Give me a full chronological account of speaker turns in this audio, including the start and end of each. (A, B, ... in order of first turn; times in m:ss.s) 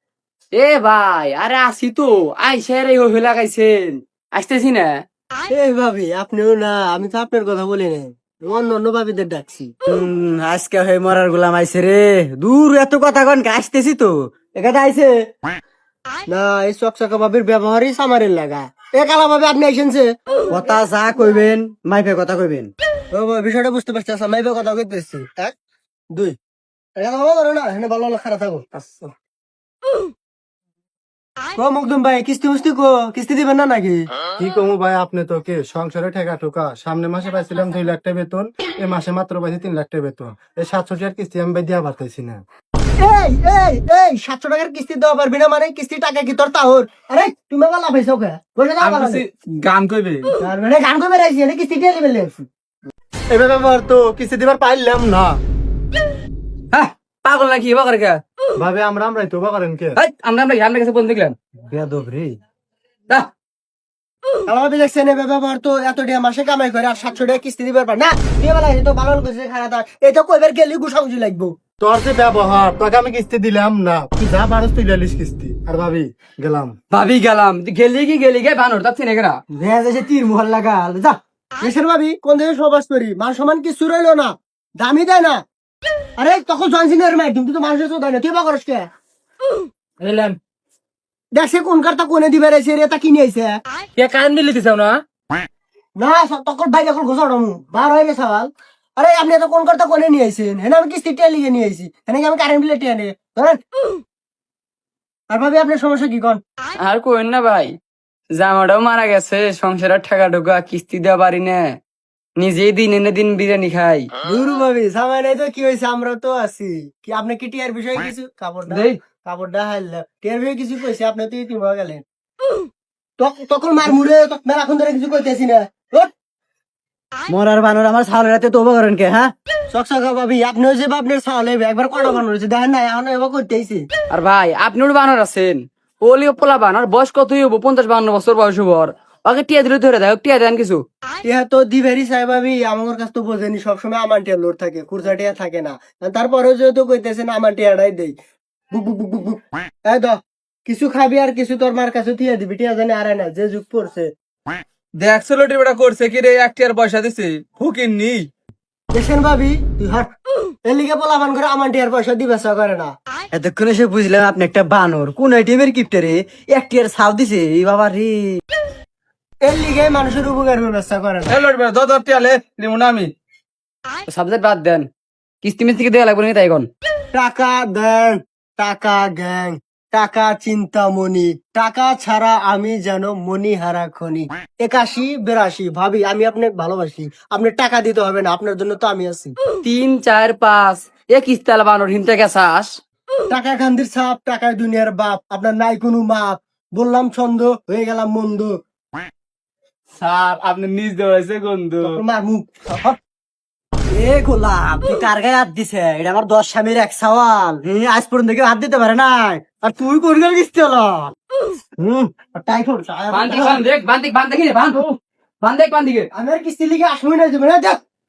0:00.6-0:05.0 A
0:05.5-0:09.7 B
0:09.9-0:15.1 C
0:16.3-0:20.1 B
0:20.5-0:22.7 C
0:23.1-0:25.6 B
0:27.0-0:29.0 B
0:31.6-0:34.1 B
0:34.4-0:42.4 D
0:43.0-0:49.2 B
0:48.8-0:50.3 E
0:50.4-0:52.5 B
0:53.3-0:55.4 D
0:56.7-0:58.2 A
0:58.6-1:00.0 D
1:00.0-1:01.4 A
1:01.7-1:02.4 C
1:04.5-1:11.6 B
1:11.8-1:16.8 D
1:16.9-1:19.4 A
1:19.6-1:21.1 C
1:21.6-1:25.4 B
1:26.2-1:28.9 B
1:30.0-1:30.4 A
1:31.4-1:33.6 B
1:34.0-1:35.0 A
1:36.0-1:43.6 B
1:45.3-1:46.4 B
1:46.8-1:47.8 A
1:48.3-1:51.8 A
1:52.4-1:54.1 A
1:54.2-2:02.0 B
1:58.7-1:59.0 A
2:03.2-2:06.1 B
2:07.3-2:09.3 C
2:09.7-2:13.9 B
2:14.1-2:20.8 A
2:21.2-2:28.2 B
2:28.7-2:34.1 B
2:35.0-2:38.3 E
2:38.9-2:40.1 B
2:40.6-2:42.9 B
2:43.3-2:48.4 C
2:49.4-2:51.4 B
2:51.3-2:53.1 E
2:54.1-2:54.9 A
2:55.4-2:56.7 A
2:57.1-3:09.4 B
3:09.6-3:12.7 A
3:13.3-3:18.6 B
3:20.0-3:22.0 E
3:21.8-3:23.0 B
3:23.9-3:27.0 C
3:26.9-3:27.6 B
3:27.6-3:29.6 C
3:29.4-3:31.1 B
3:31.8-3:33.6 B
3:33.1-3:36.1 A
3:36.1-3:37.8 B